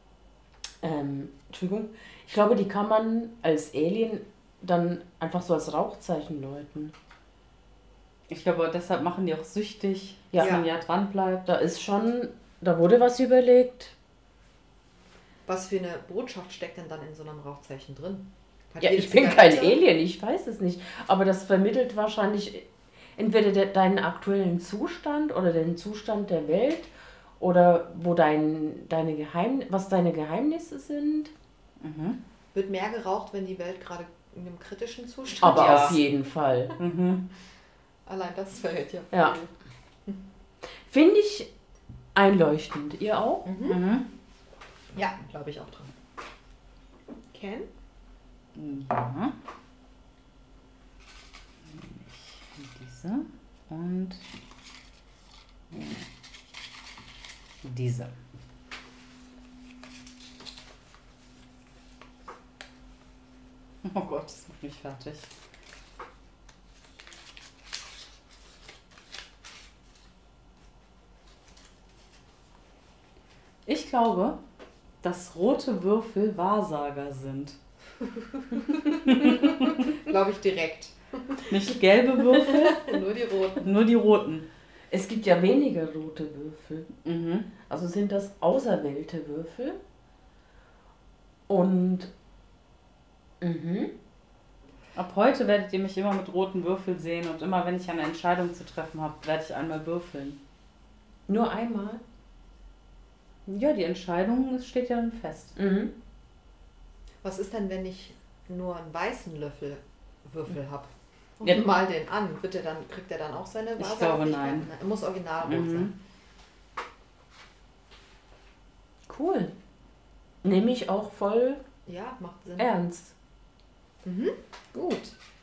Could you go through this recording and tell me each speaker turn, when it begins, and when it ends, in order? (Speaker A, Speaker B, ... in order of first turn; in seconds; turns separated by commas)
Speaker A: 0.8-6.9, Speaker B: 8.3-11.5, Speaker C: 10.4-10.7, Speaker A: 11.5-13.9, Speaker C: 15.5-19.8, Speaker A: 18.8-31.3, Speaker B: 31.8-32.2, Speaker C: 32.5-36.0, Speaker A: 35.4-36.8, Speaker B: 35.5-36.0, Speaker B: 36.8-37.2, Speaker C: 38.1-39.5, Speaker A: 39.1-39.4, Speaker A: 40.9-41.5, Speaker A: 42.1-43.5, Speaker C: 43.5-43.8, Speaker B: 43.7-44.0, Speaker C: 44.9-45.9, Speaker C: 47.3-47.7, Speaker B: 48.5-49.3, Speaker B: 51.7-54.2, Speaker B: 55.7-56.1, Speaker B: 57.6-58.1, Speaker B: 63.8-65.3, Speaker B: 73.7-74.4, Speaker B: 75.0-77.6, Speaker B: 78.7-79.9, Speaker C: 79.1-81.5, Speaker B: 81.5-82.8, Speaker C: 82.3-83.7, Speaker B: 83.6-84.5, Speaker A: 84.9-86.9, Speaker B: 87.0-87.5, Speaker A: 87.6-89.8, Speaker A: 91.5-92.1, Speaker A: 93.4-93.9, Speaker B: 95.0-100.4, Speaker A: 101.3-102.0, Speaker B: 103.5-105.6, Speaker A: 105.6-105.9, Speaker C: 107.2-115.9, Speaker B: 113.8-114.7, Speaker B: 115.4-115.9, Speaker A: 119.1-119.5, Speaker A: 120.4-121.6, Speaker C: 121.9-122.7, Speaker A: 122.6-123.2, Speaker C: 124.0-125.2